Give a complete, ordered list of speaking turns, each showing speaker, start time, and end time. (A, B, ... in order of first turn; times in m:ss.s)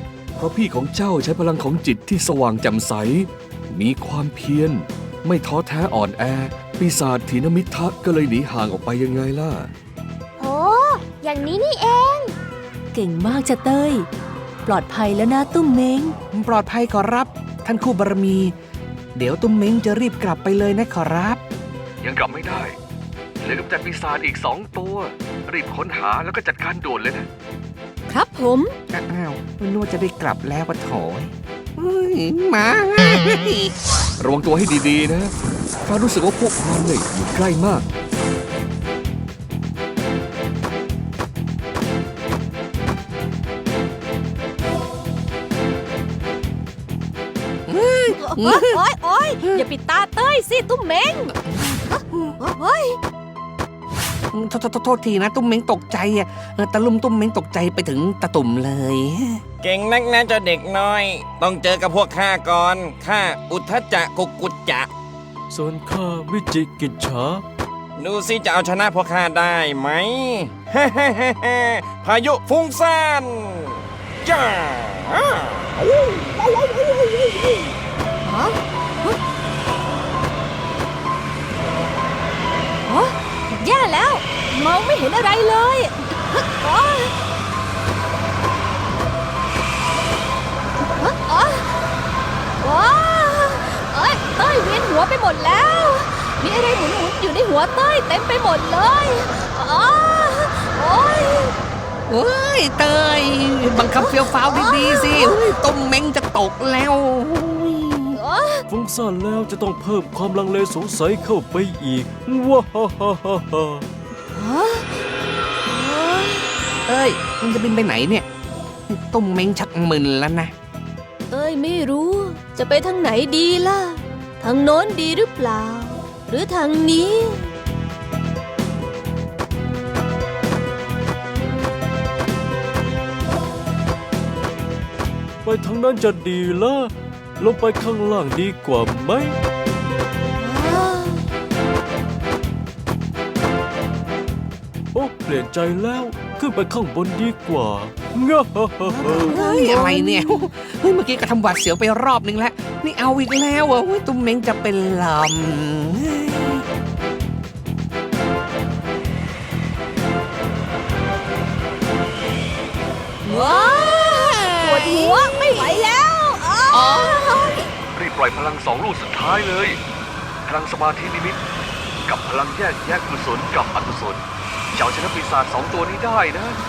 0:00.4-0:09.7 A
0:10.4-0:12.3 B
0:12.9-0:14.1 C
0:14.7-0:16.2 C
0:16.3-0:18.5 D
0:19.2-0:21.4 D
0:22.0-0:22.8 A
0:23.4-0:27.3 A
0:28.1-0:28.8 E
0:28.9-0:33.7 D
0:34.2-0:35.3 A
0:35.9-0:37.9 A
0:47.7-0:48.8 D
0:48.1-0:51.4 E
0:51.5-0:52.4 D
0:51.9-0:53.0 E
0:54.3-0:59.4 D
0:59.6-1:04.9 F
1:05.5-1:07.4 G
1:08.0-1:16.1 F
1:18.2-1:19.2 E
1:22.9-1:27.1 E
1:31.0-1:31.7 E
1:32.6-1:41.5 E
1:42.1-1:48.2 D
1:44.0-1:45.4 E
1:48.2-1:48.6 E
1:48.7-1:53.8 G
1:54.3-1:55.0 E
1:55.7-1:56.4 E
1:56.9-1:58.3 D
1:58.9-2:00.5 D
2:01.3-2:07.5 E
2:15.4-2:19.3 G
2:20.4-2:21.2 E
2:24.9-2:29.4 G
2:28.9-2:36.6 D
2:29.3-2:30.4 E
2:43.3-2:45.6 D
2:44.6-2:46.9 E
2:45.6-2:46.3 B
2:46.7-2:47.2 D
2:46.9-2:47.5 B
2:47.9-2:49.8 A
2:50.4-2:51.4 A
2:52.0-2:56.6 A